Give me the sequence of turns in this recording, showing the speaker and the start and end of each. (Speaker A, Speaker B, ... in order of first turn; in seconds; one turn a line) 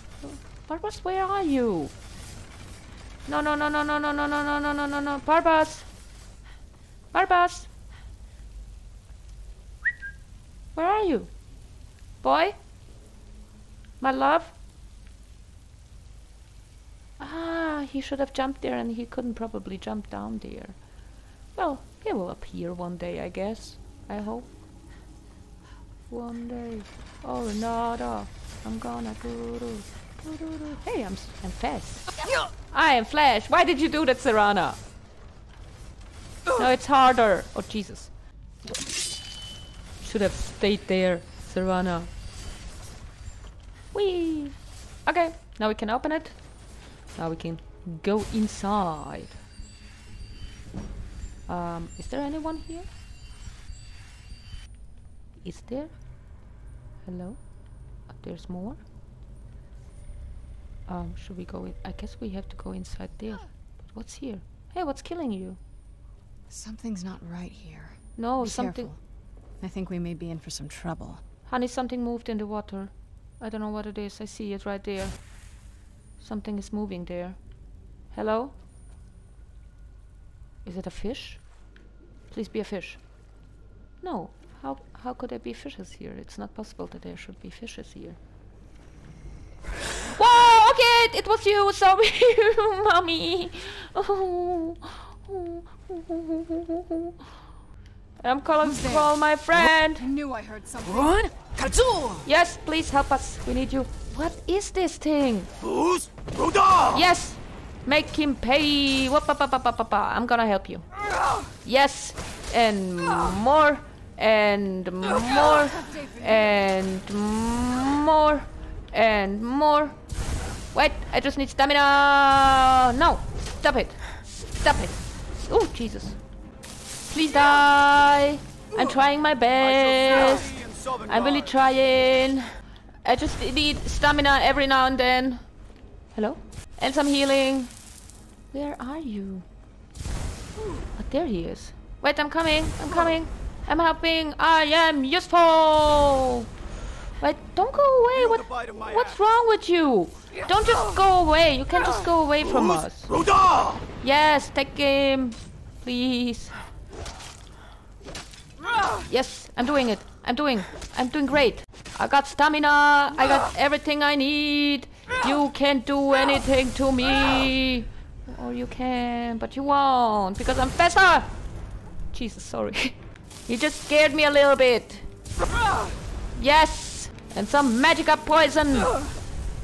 Speaker A: 0.2-1.9
Speaker A: 3.3-5.9
Speaker A: 7.1-7.7
Speaker A: 10.7-11.3
Speaker A: 12.2-12.6
Speaker A: 14.0-14.5
Speaker A: 17.2-20.8
Speaker A: 21.5-24.5
Speaker A: 26.1-32.1
Speaker A: 32.7-34.8
Speaker A: 36.5-38.1
Speaker A: 40.0-42.1
Speaker A: 43.9-46.4
Speaker A: 47.1-49.4
Speaker A: 51.5-52.9
Speaker A: 55.4-55.9
Speaker A: 57.0-57.4
Speaker A: 58.1-58.8
Speaker A: 60.9-65.6
Speaker B: 66.5-69.0
Speaker A: 68.2-68.9
Speaker B: 69.6-71.2
Speaker A: 71.5-75.2
Speaker A: 76.2-77.4
Speaker A: 78.1-78.5
Speaker A: 80.6-81.4
Speaker A: 82.3-83.0
Speaker A: 84.0-88.2
Speaker A: 90.1-97.2
Speaker A: 98.2-100.1
Speaker B: 98.6-99.2
Speaker B: 99.8-101.3
Speaker C: 100.8-102.2
Speaker A: 102.2-105.5
Speaker C: 105.6-106.9
Speaker A: 106.9-110.8
Speaker A: 111.6-120.0
Speaker B: 115.6-116.7
Speaker A: 120.7-126.2
Speaker A: 127.1-132.5
Speaker A: 133.0-135.4
Speaker A: 136.1-137.7
Speaker A: 138.5-139.4
Speaker A: 140.9-146.5
Speaker A: 147.2-153.1
Speaker C: 153.1-153.8
Speaker A: 154.0-156.6
Speaker A: 159.0-171.3
Speaker A: 172.1-175.1
Speaker A: 176.3-179.0